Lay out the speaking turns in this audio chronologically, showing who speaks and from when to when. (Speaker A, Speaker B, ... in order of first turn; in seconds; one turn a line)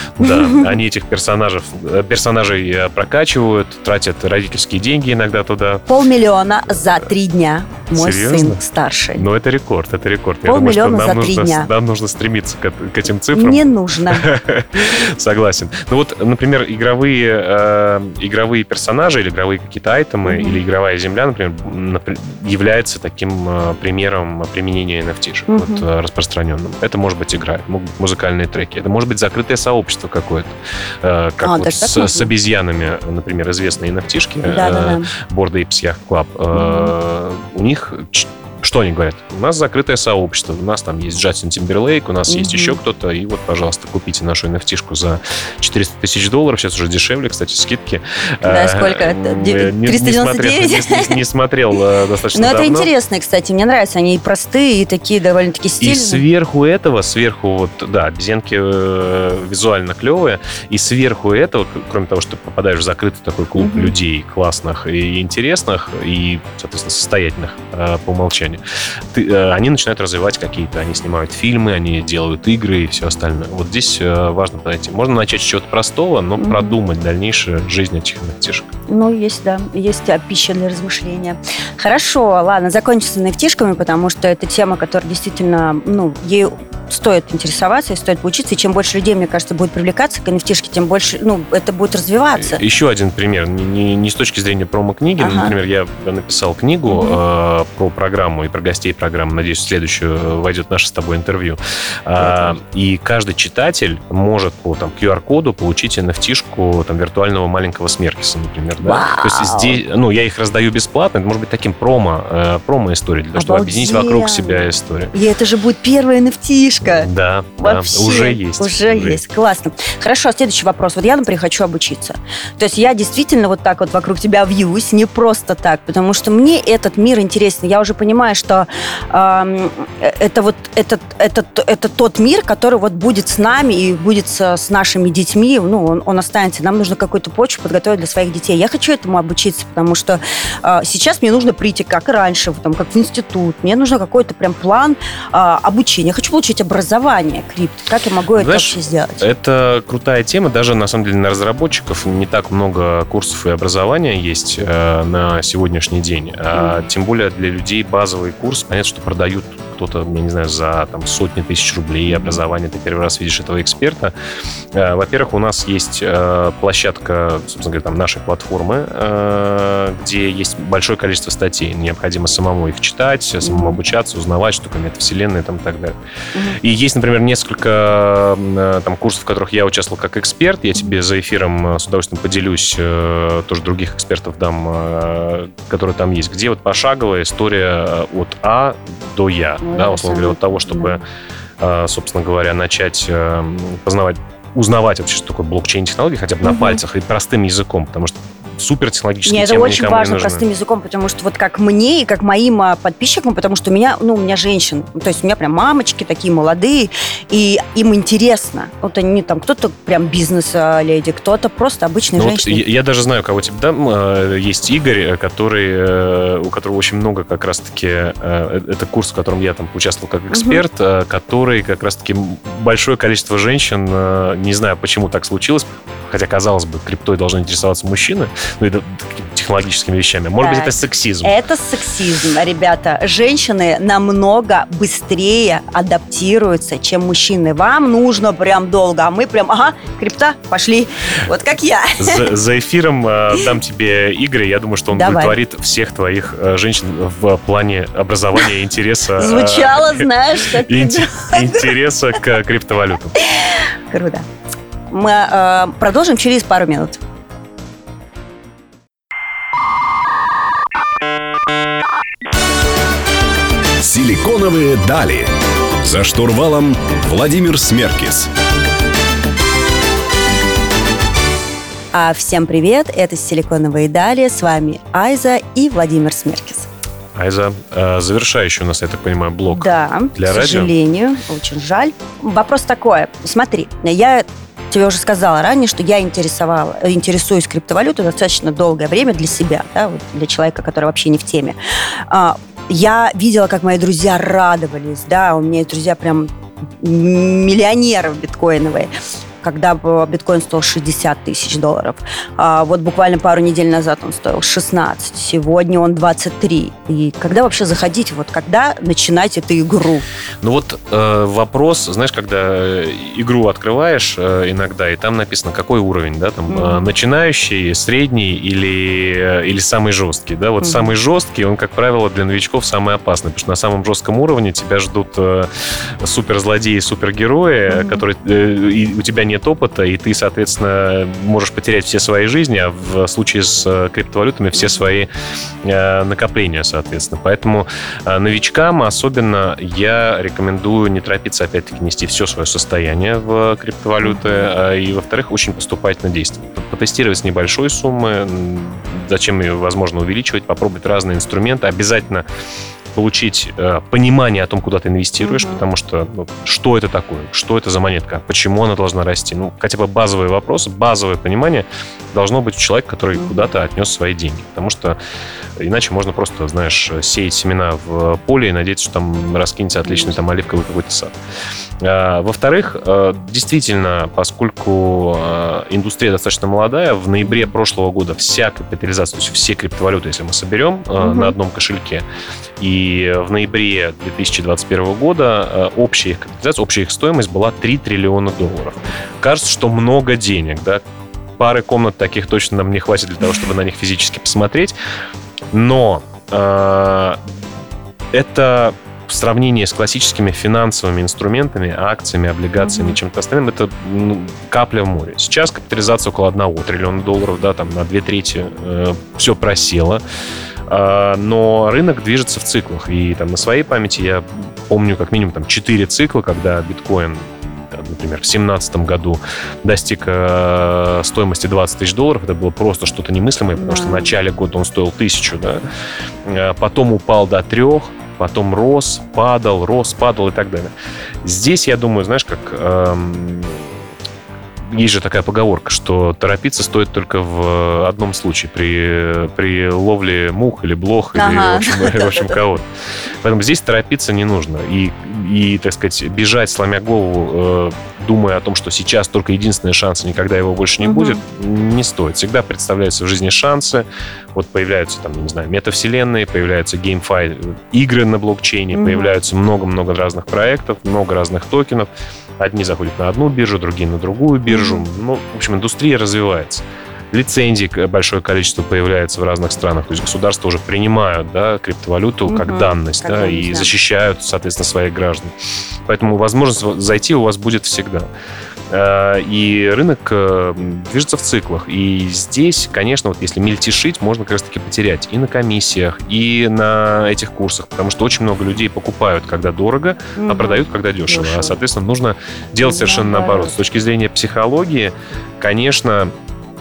Speaker A: 0.2-5.8
Speaker B: 0.2-0.7
Speaker B: 5.9-9.2
Speaker A: 7.9-8.6
Speaker A: 9.1-52.9
Speaker B: 10.4-11.7
Speaker B: 13.3-14.3
Speaker B: 20.2-20.6
Speaker B: 25.5-25.8
Speaker B: 31.4-32.3
Speaker B: 34.5-35.1
Speaker B: 36.5-36.9
Speaker B: 42.3-42.8
Speaker B: 48.4-51.1
Speaker B: 52.3-56.2
Speaker A: 55.8-68.6
Speaker B: 63.6-63.9
Speaker A: 69.1-78.7
Speaker B: 76.4-76.8
Speaker B: 78.9-92.6
Speaker A: 92.4-115.1
Speaker B: 95.2-95.5
Speaker B: 96.9-97.2
Speaker B: 102.2-102.5
Speaker B: 108.8-109.8
Speaker B: 113.3-149.3
Speaker A: 117.0-119.2
Speaker A: 148.3-164.1
Speaker B: 156.5-156.8
Speaker B: 162.1-162.4
Speaker A: 164.7-175.9
Speaker B: 173.4-173.8
Speaker A: 176.6-191.0
Speaker B: 189.6-191.0
Speaker A: 191.6-200.4
Speaker B: 196.4-196.8
Speaker B: 199.2-212.6
Speaker A: 212.2-231.3
Speaker B: 220.3-220.6
Speaker B: 230.4-242.2
Speaker A: 242.0-250.0
Speaker B: 244.9-245.3
Speaker B: 249.2-251.7
Speaker A: 250.7-253.2
Speaker B: 253.2-254.3
Speaker B: 254.9-257.0
Speaker C: 263.8-268.3
Speaker B: 271.9-276.7
Speaker A: 277.1-280.7
Speaker B: 279.5-291.6
Speaker B: 292.1-310.0
Speaker A: 310.4-325.5
Speaker B: 316.5-316.9
Speaker B: 320.6-320.9
Speaker A: 326.0-335.1
Speaker B: 327.7-328.0
Speaker B: 334.5-334.8
Speaker A: 335.6-352.2
Speaker B: 344.0-344.4
Speaker A: 352.9-365.0
Speaker B: 355.2-355.6
Speaker B: 363.1-363.5
Speaker A: 365.6-371.1
Speaker B: 369.9-370.2
Speaker A: 371.8-382.0
Speaker B: 381.0-381.3
Speaker A: 382.6-390.8
Speaker A: 391.4-394.7
Speaker A: 395.5-397.3
Speaker A: 398.1-410.0
Speaker B: 402.6-403.0
Speaker A: 410.7-425.6
Speaker B: 423.6-424.1
Speaker A: 426.2-430.7
Speaker A: 431.2-433.8
Speaker A: 434.7-442.7
Speaker B: 441.1-442.4
Speaker A: 443.2-475.3
Speaker B: 450.8-451.2
Speaker B: 458.7-459.1
Speaker B: 464.5-464.9
Speaker B: 472.2-473.7
Speaker A: 475.9-478.1
Speaker A: 478.7-496.1
Speaker B: 490.1-491.6
Speaker B: 492.6-493.5